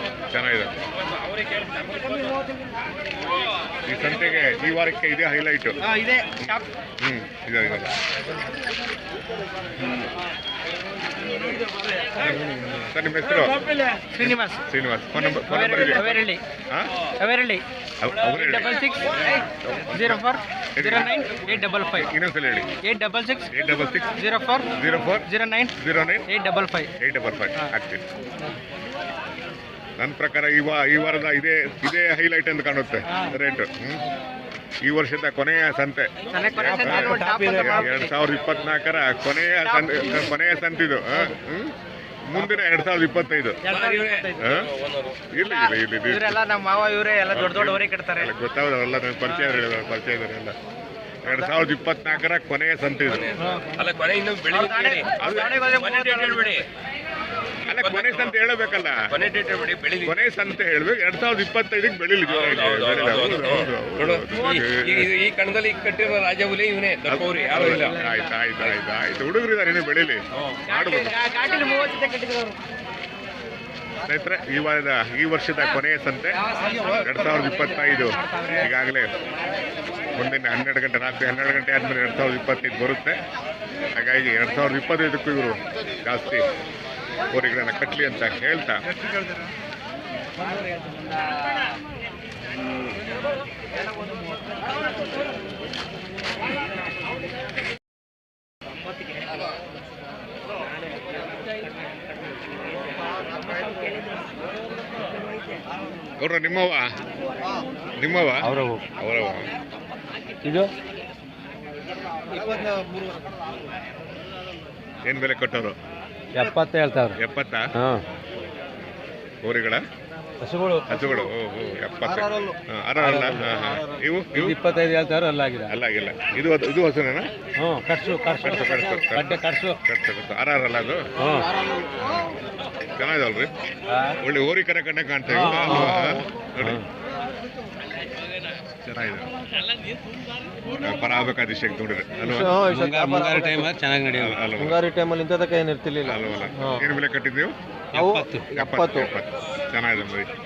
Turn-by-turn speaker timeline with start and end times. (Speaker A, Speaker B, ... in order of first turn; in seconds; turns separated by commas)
Speaker A: 0.3-0.7, Speaker A: 3.9-5.8, Speaker B: 5.8-6.7, Speaker A: 6.4-7.9, Speaker A: 12.2-13.6, Speaker B: 14.1-14.6, Speaker A: 14.2-16.9, Speaker B: 15.5-16.4, Speaker B: 17.2-17.6, Speaker A: 18.0-20.2, Speaker B: 18.3-22.1, Speaker A: 20.8-22.7, Speaker B: 22.8-23.5, Speaker A: 23.5-24.1, Speaker B: 24.2-24.7, Speaker A: 24.7-25.2, Speaker B: 25.2-25.7, Speaker A: 25.8-26.2, Speaker B: 26.3-26.9, Speaker A: 27.0-28.0, Speaker A: 30.0-34.0, Speaker B: 33.1-33.4, Speaker A: 34.8-41.7, Speaker B: 36.3-38.1, Speaker C: 37.2-37.6, Speaker B: 39.6-40.2, Speaker A: 42.3-43.6, Speaker B: 43.6-44.4, Speaker C: 43.6-45.2, Speaker A: 44.4-44.7, Speaker A: 45.3-46.4, Speaker B: 45.4-48.3, Speaker A: 47.3-50.5, Speaker A: 51.2-53.3, Speaker B: 51.2-51.6, Speaker C: 53.1-56.6, Speaker B: 54.5-56.6, Speaker A: 55.2-55.5, Speaker A: 57.7-59.0, Speaker C: 57.7-58.3, Speaker C: 59.1-60.2, Speaker A: 60.0-65.1, Speaker C: 62.2-68.0, Speaker A: 67.1-71.2, Speaker B: 70.7-72.6, Speaker A: 74.0-76.4, Speaker B: 76.4-78.7, Speaker A: 77.0-79.1, Speaker A: 80.2-83.2, Speaker A: 83.9-86.4, Speaker A: 87.3-88.8, Speaker A: 106.2-106.9, Speaker A: 108.0-109.5, Speaker D: 108.4-108.8, Speaker D: 110.4-110.7, Speaker E: 112.3-113.2, Speaker A: 115.0-115.8, Speaker D: 116.3-117.2, Speaker A: 117.2-117.7, Speaker D: 117.7-118.0, Speaker A: 119.4-119.8, Speaker D: 120.4-121.0, Speaker A: 120.9-124.6, Speaker E: 122.0-122.5, Speaker D: 123.0-123.4, Speaker E: 123.5-123.8, Speaker D: 124.3-125.7, Speaker A: 125.7-127.3, Speaker D: 127.6-129.8, Speaker A: 128.3-131.0, Speaker D: 131.2-131.5, Speaker A: 132.0-132.3, Speaker A: 133.0-133.5, Speaker D: 133.9-134.2, Speaker A: 134.2-136.8, Speaker D: 135.3-136.1, Speaker E: 135.7-136.2, Speaker A: 138.8-139.3, Speaker A: 140.7-142.5, Speaker E: 142.2-143.7, Speaker D: 142.6-144.4, Speaker A: 144.1-144.8, Speaker E: 144.6-146.9, Speaker A: 146.1-147.5, Speaker D: 147.9-148.5, Speaker E: 147.9-149.1, Speaker A: 148.5-150.3